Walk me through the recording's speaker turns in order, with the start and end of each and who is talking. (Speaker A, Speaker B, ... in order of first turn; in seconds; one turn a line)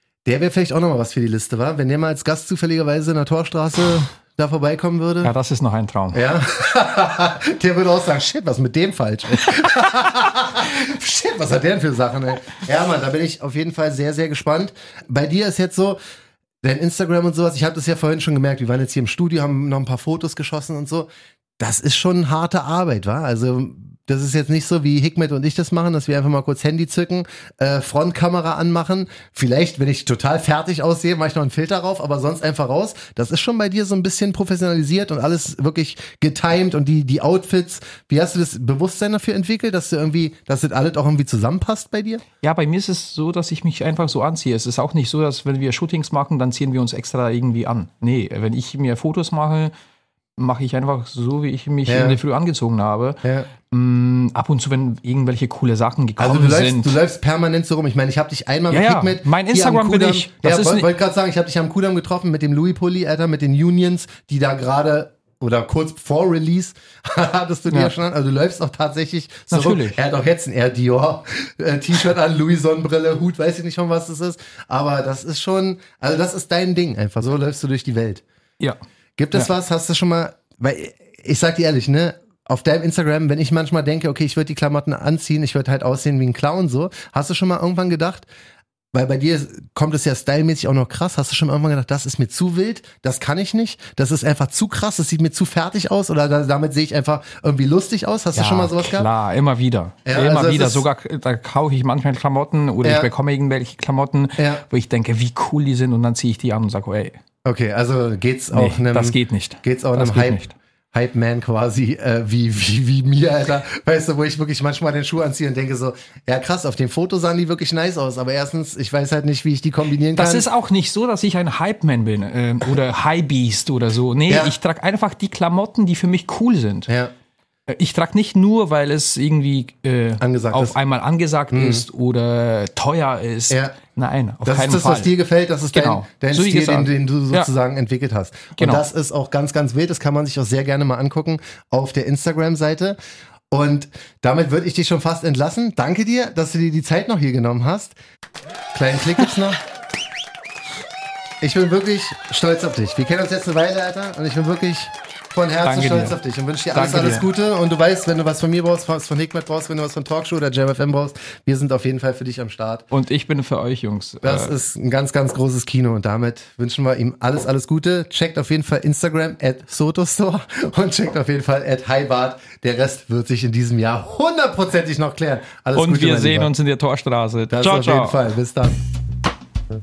Speaker A: 0.2-5.3
Speaker B: 5.2-6.3
Speaker A: 6.1-16.0
Speaker A: 16.6-42.2
Speaker B: 42.4-49.7
Speaker B: 50.4-57.0
Speaker A: 51.9-52.2
Speaker A: 53.2-53.5
Speaker A: 56.2-78.2
Speaker B: 58.7-60.9
Speaker B: 67.7-67.9
Speaker B: 69.5-70.0
Speaker A: 79.2-88.3
Speaker A: 88.9-99.1
Speaker B: 98.3-107.2
Speaker A: 100.0-100.9
Speaker A: 102.8-103.1
Speaker A: 104.4-104.6
Speaker A: 107.4-110.4
Speaker B: 108.5-110.5
Speaker A: 110.9-120.5
Speaker B: 120.1-126.9
Speaker A: 124.3-124.5
Speaker B: 127.7-135.1
Speaker A: 130.2-130.8
Speaker A: 131.5-131.9
Speaker A: 133.5-133.8
Speaker A: 134.4-142.9
Speaker B: 135.7-137.5
Speaker B: 138.6-138.8
Speaker A: 143.5-147.9
Speaker A: 148.7-149.6
Speaker A: 151.4-162.9
Speaker B: 155.6-156.2
Speaker B: 156.7-157.3
Speaker B: 162.9-164.6
Speaker A: 164.2-176.5
Speaker B: 175.8-178.2
Speaker A: 177.5-178.8